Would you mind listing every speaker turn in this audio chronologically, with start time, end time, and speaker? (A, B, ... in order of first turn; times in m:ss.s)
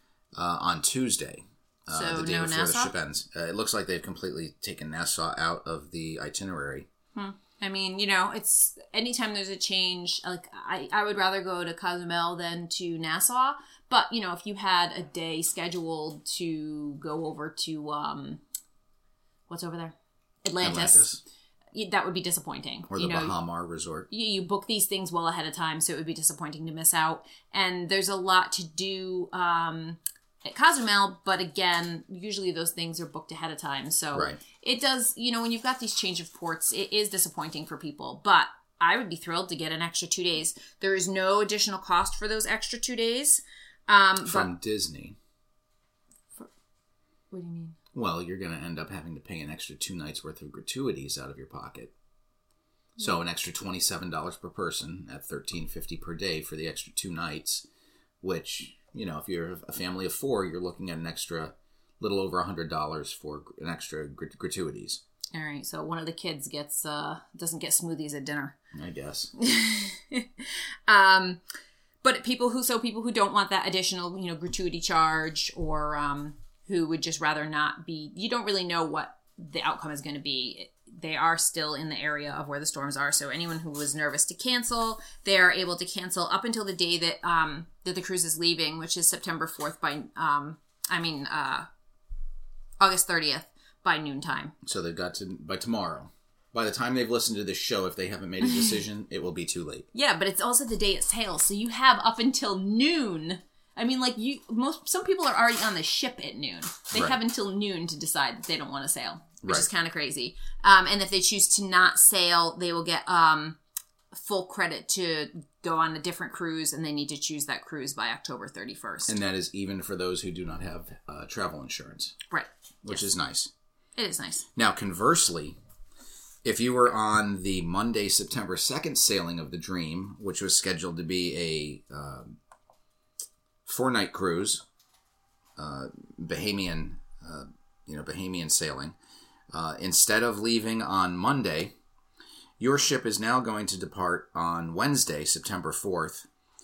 0:00.3-0:06.9 A
0:01.9-0:02.9 B
0:07.1-0:18.4 B
0:19.5-0:21.1 B
0:20.6-0:21.2 A
0:21.7-0:23.4 B
0:22.9-0:24.1 A
0:24.1-0:44.5 B
0:34.1-0:34.4 A
0:44.2-0:45.2 A
0:47.3-0:47.8 B
0:47.9-0:51.9 A
0:53.0-0:57.6 A
0:58.2-1:05.0 A
1:05.3-1:08.6 B
1:08.7-1:09.3 A
1:09.4-1:11.4 B
1:12.0-1:31.7 B
1:32.8-1:34.5 B
1:34.6-1:39.9 A
1:38.4-1:38.8 B
1:39.9-1:53.6 B
1:54.1-1:59.1 B
1:59.1-2:02.2 A
2:02.3-2:03.0 B
2:02.8-2:03.5 A
2:04.0-2:04.5 B
2:04.5-2:05.6 A
2:06.4-2:12.4 A
2:13.6-2:14.6 A
2:15.6-2:19.0 A
2:19.5-2:21.7 A
2:22.6-2:26.3 A